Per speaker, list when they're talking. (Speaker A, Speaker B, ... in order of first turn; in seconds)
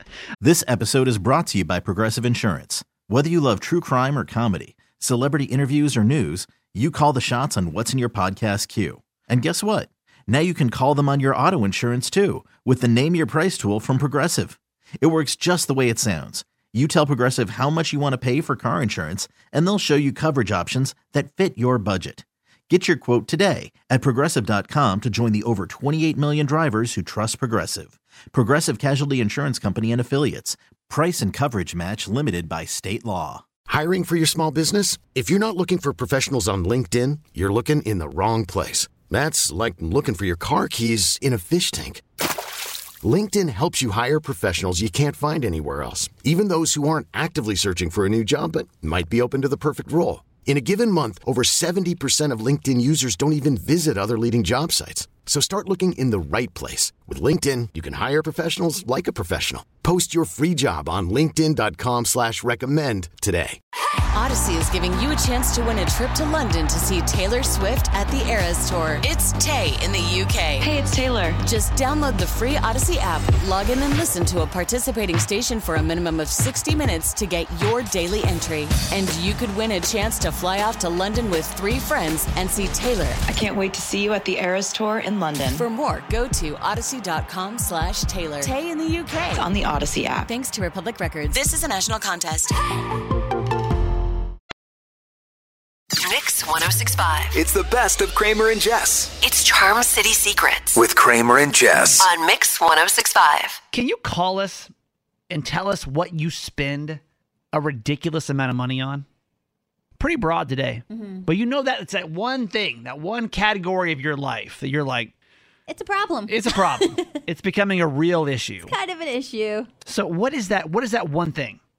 Speaker A: 0.4-33.4
Speaker B: 33.7-42.0, 43.0-63.6
Speaker C: 64.1-70.7, 71.4-83.2, 85.5-89.5, 90.2-92.5
Speaker D: 70.6-71.4, 83.3-85.7, 89.3-90.3
Speaker E: 96.0-97.3, 99.2-100.8, 102.0-103.6
Speaker F: 97.3-99.1, 100.7-102.1
Speaker G: 103.7-104.7, 105.3-107.0, 107.5-109.0, 110.0-115.1, 116.3-118.7, 119.8-121.6
Speaker H: 110.9-111.3, 115.7-117.1, 118.7-119.7